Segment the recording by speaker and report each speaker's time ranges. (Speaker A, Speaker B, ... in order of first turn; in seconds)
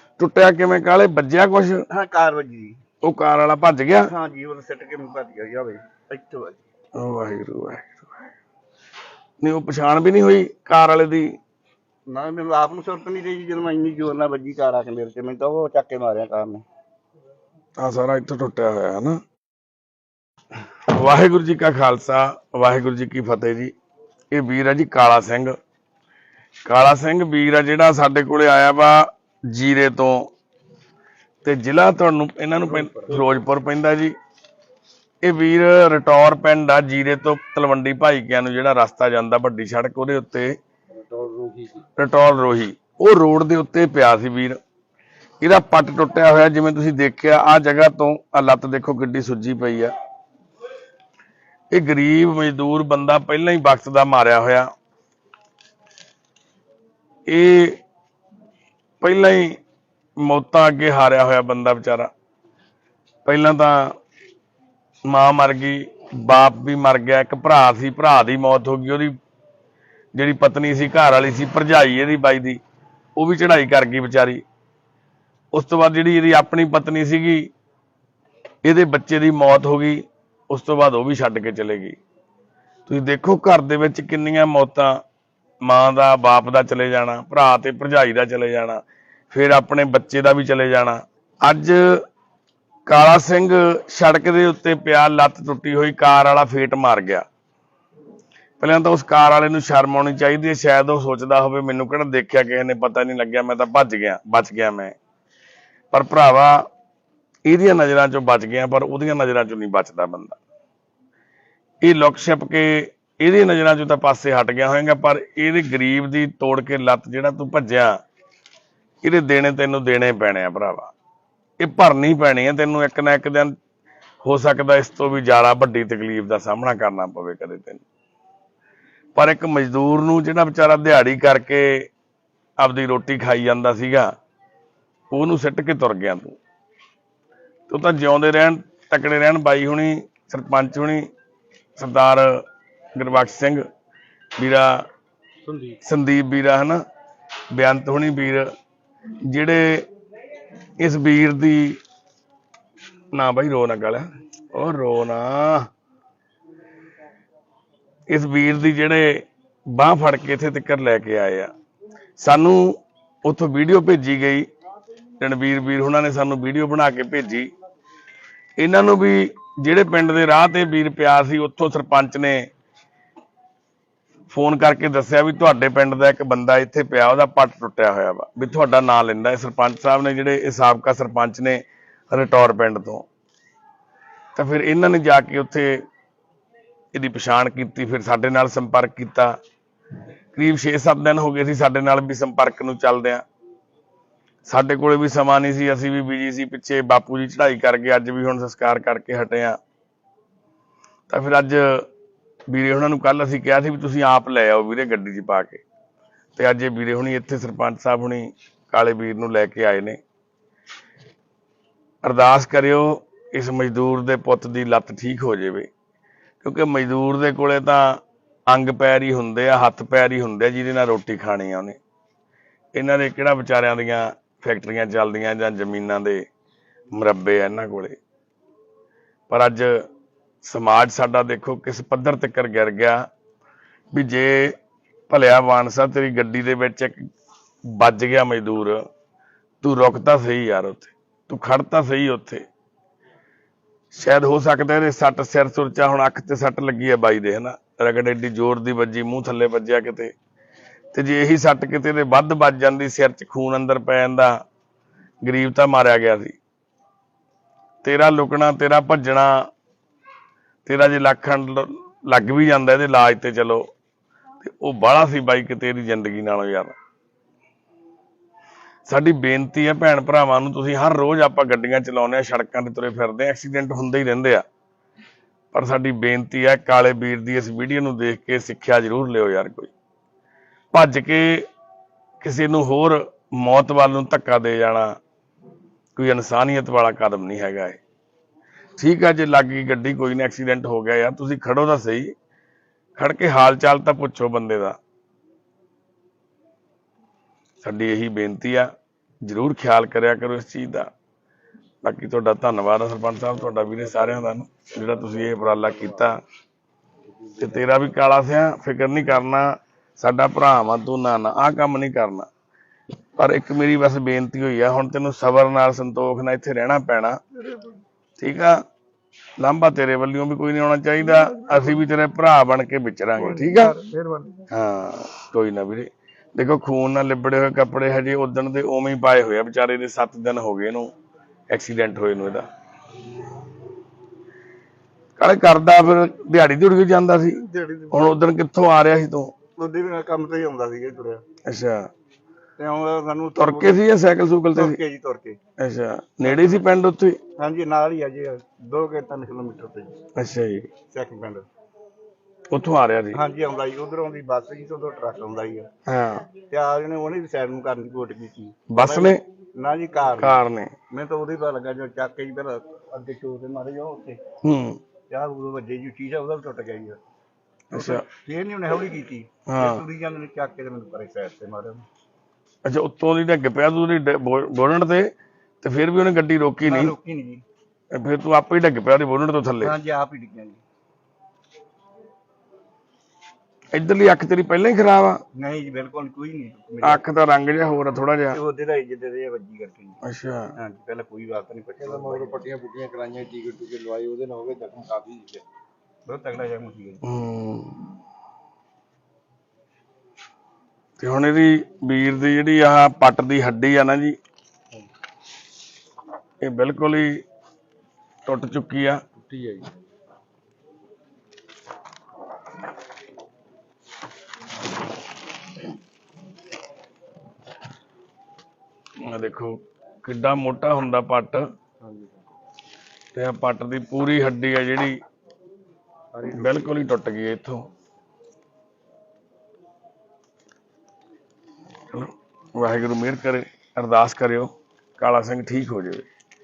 Speaker A: 0.2-1.9, 3.0-4.1, 6.9-8.3, 9.4-11.3, 17.8-19.2, 20.9-23.7, 24.3-25.6, 26.6-30.3, 31.4-34.1, 35.2-40.6, 42.0-44.6, 45.4-49.9, 51.7-54.7, 57.3-57.8, 59.0-59.6, 60.2-62.1, 63.2-63.9, 65.1-69.1, 70.1-72.6, 73.2-74.4, 75.5-77.5, 78.6-82.0, 82.9-85.0, 85.6-92.0, 92.9-97.2, 98.6-105.0, 105.9-106.6, 107.5-110.4, 111.8-117.9, 119.0-120.9, 121.6-123.5, 124.2-127.8, 129.2-131.9, 132.6-134.1, 135.1-136.4, 137.7-141.1, 141.8-142.4, 142.9-143.6, 144.4-144.8, 145.8-146.8, 147.5-148.5, 149.2-149.8, 150.8-151.8, 153.1-155.7, 158.1-161.5, 162.2-164.4, 165.2-167.5, 168.6-172.5, 174.3-183.1, 184.3-185.8, 186.9-189.3, 190.3-193.2, 194.4-199.6, 201.1-201.9, 202.5-205.6, 206.3-210.0, 212.0-215.7, 216.4-221.8, 222.7-226.2, 226.9-228.0, 229.3-229.8, 230.4-233.1, 233.9-234.6, 235.1-237.0, 237.7-238.8, 239.6-242.4, 243.9-250.1, 250.9-254.3, 255.2-256.4, 257.8-259.5, 260.6-263.6, 264.4-266.8, 268.9-274.4, 275.5-279.7, 280.7-281.4, 282.2-284.9, 286.0-287.8, 288.8-292.1, 293.0-294.8, 297.6-298.7, 299.2-300.9, 301.8-306.2, 307.4-312.3, 313.2-317.2, 318.2-318.6, 319.4-323.8, 324.5-330.9, 331.5-332.4, 335.2-339.3, 341.4-341.9, 343.4-344.8, 345.6-347.2, 350.2-350.7, 352.5-353.2, 355.9-356.2, 358.7-359.2, 360.2-360.7, 364.4-364.8, 367.7-368.0, 369.5-369.8, 372.6-375.1, 375.6-376.9, 377.9-379.7, 383.7-385.2, 386.8-388.4, 390.0-390.5, 397.0-397.8, 401.0-404.2, 406.4-407.2, 408.2-409.0, 419.1-421.4, 423.1-424.9, 426.3-427.7, 431.9-436.1
Speaker B: 1.9-2.8, 4.1-6.6, 12.1-16.6, 317.4-317.8, 321.1-321.8, 323.2-324.4, 337.3-338.2, 339.6-341.2, 342.6-343.8, 344.5-345.4, 346.2-346.6, 347.4-350.0, 350.9-351.4, 353.1-355.7, 356.5-364.2, 365.1-367.0, 367.7-371.8, 376.6-377.4, 379.6-380.6, 385.3-387.0, 388.3-390.0, 390.6-392.3, 396.1-397.0
Speaker C: 32.7-33.4, 40.9-41.8, 303.5-304.2, 304.8-306.2, 307.2-307.7, 391.8-395.4, 409.2-409.7, 421.8-422.2, 426.1-426.7